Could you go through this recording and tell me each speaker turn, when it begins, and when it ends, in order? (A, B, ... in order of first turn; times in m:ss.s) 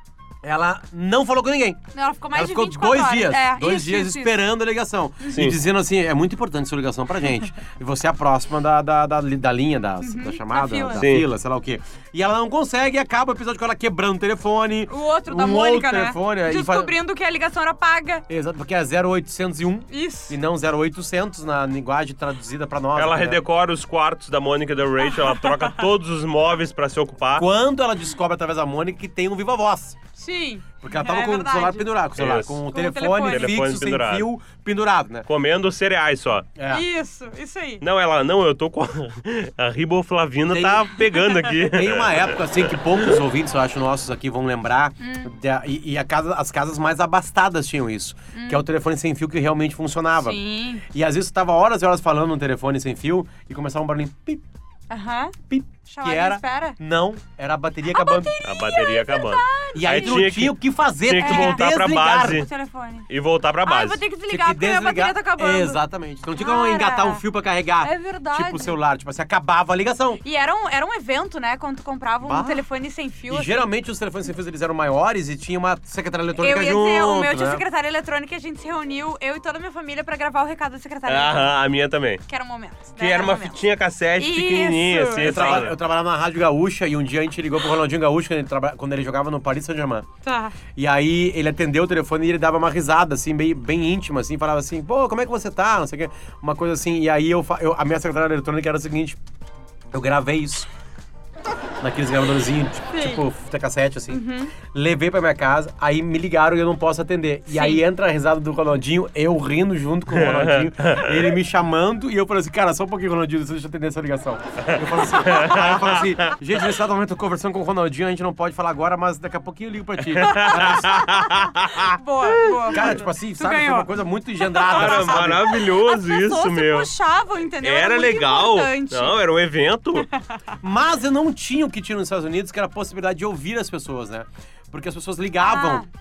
0:00.4-0:01.8 A
0:01.9-0:04.4 B
0:02.3-0:17.0 A
0:10.0-0:11.1 B
0:11.0-0:11.3 C
0:14.9-0:18.2 B
0:18.3-0:23.4 A
0:19.9-0:20.4 B
0:23.0-0:27.5 C
0:25.0-0:25.8 B
0:27.4-0:30.0 A
0:30.2-0:31.9 B
0:30.8-0:35.3 A
0:32.2-0:32.6 C
0:32.7-0:33.6 B
0:33.2-0:34.3 C
0:35.3-0:36.5 C
0:36.6-0:36.8 A
0:36.7-0:37.8 B
0:37.8-0:43.1 C
0:40.5-0:40.9 A
0:41.1-0:41.5 B
0:41.6-0:54.4 A
0:45.0-0:45.3 B
0:48.3-0:48.6 B
0:50.2-0:50.8 B
0:54.9-0:55.4 B
0:55.5-0:58.3 A
0:55.9-0:56.8 B
0:57.9-1:00.2 B
0:58.4-1:02.5 C
0:59.8-1:02.4 A
1:01.2-1:03.1 B
1:03.1-1:04.0 C
1:03.6-1:05.8 B
1:04.3-1:10.2 A
1:06.4-1:07.2 B
1:07.8-1:08.8 B
1:10.2-1:13.7 B
1:12.2-1:12.6 A
1:13.3-1:17.6 A
1:16.4-1:21.6 B
1:21.1-1:22.2 C
1:22.3-1:23.6 B
1:23.0-1:25.8 C
1:24.2-1:25.6 B
1:25.2-1:30.1 A
1:30.2-1:30.6 B
1:30.8-1:39.2 A
1:39.9-1:40.7 A
1:41.8-2:01.1 A
1:42.9-1:43.2 B
1:44.1-1:44.6 B
1:47.5-1:47.8 B
1:50.1-1:51.3 C
1:54.6-1:56.4 C
2:00.1-2:03.0 C
2:00.2-2:09.2 B
2:02.7-2:05.6 A
2:04.7-2:06.9 C
2:07.6-2:10.1 C
2:10.0-2:10.4 B
2:10.6-2:15.8 A
2:15.4-2:15.9 B